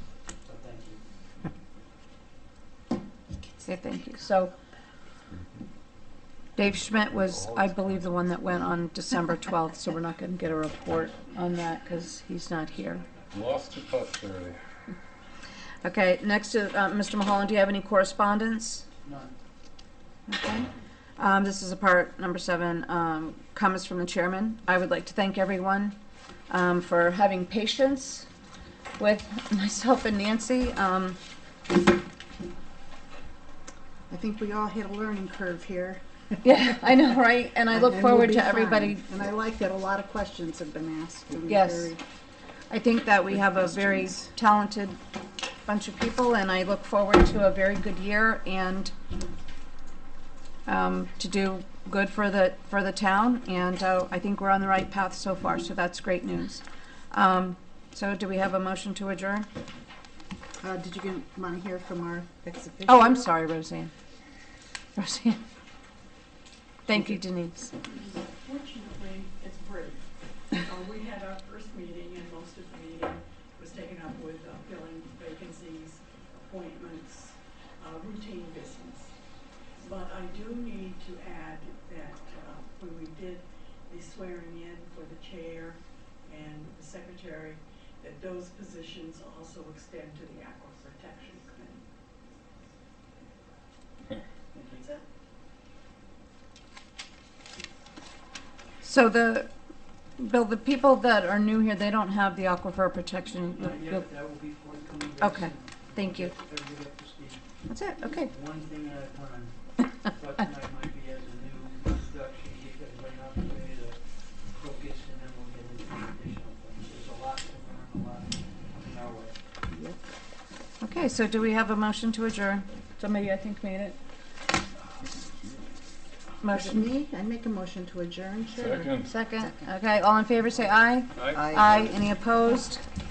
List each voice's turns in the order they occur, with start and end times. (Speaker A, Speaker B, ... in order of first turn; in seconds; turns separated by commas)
Speaker A: 0.4-1.0, Speaker B: 3.6-4.5, Speaker B: 6.6-13.0, Speaker C: 7.0-8.5, Speaker A: 12.7-13.7, Speaker C: 13.3-14.6, Speaker B: 15.8-18.9, Speaker A: 19.0-19.3, Speaker B: 20.3-25.9, Speaker B: 26.5-28.3, Speaker B: 29.0-31.2, Speaker D: 34.1-36.6, Speaker B: 36.4-39.0, Speaker D: 37.7-42.0, Speaker B: 41.5-41.9, Speaker B: 42.7-45.0, Speaker B: 45.6-48.9, Speaker B: 50.7-59.5, Speaker D: 60.6-63.3, Speaker B: 62.9-63.9, Speaker B: 65.0-65.4, Speaker B: 66.9-67.7, Speaker D: 66.9-67.2, Speaker E: 67.8-70.0, Speaker E: 70.5-79.1, Speaker E: 79.8-91.8, Speaker A: 94.5-94.8, Speaker B: 98.8-99.5, Speaker B: 100.2-104.0, Speaker A: 103.6-107.4, Speaker B: 105.2-106.3, Speaker B: 107.7-108.3, Speaker A: 108.2-119.3, Speaker D: 119.7-120.0, Speaker B: 120.8-124.0, Speaker B: 126.4-126.8, Speaker D: 126.5-129.7, Speaker C: 128.5-129.1, Speaker B: 129.1-132.8, Speaker D: 131.3-131.8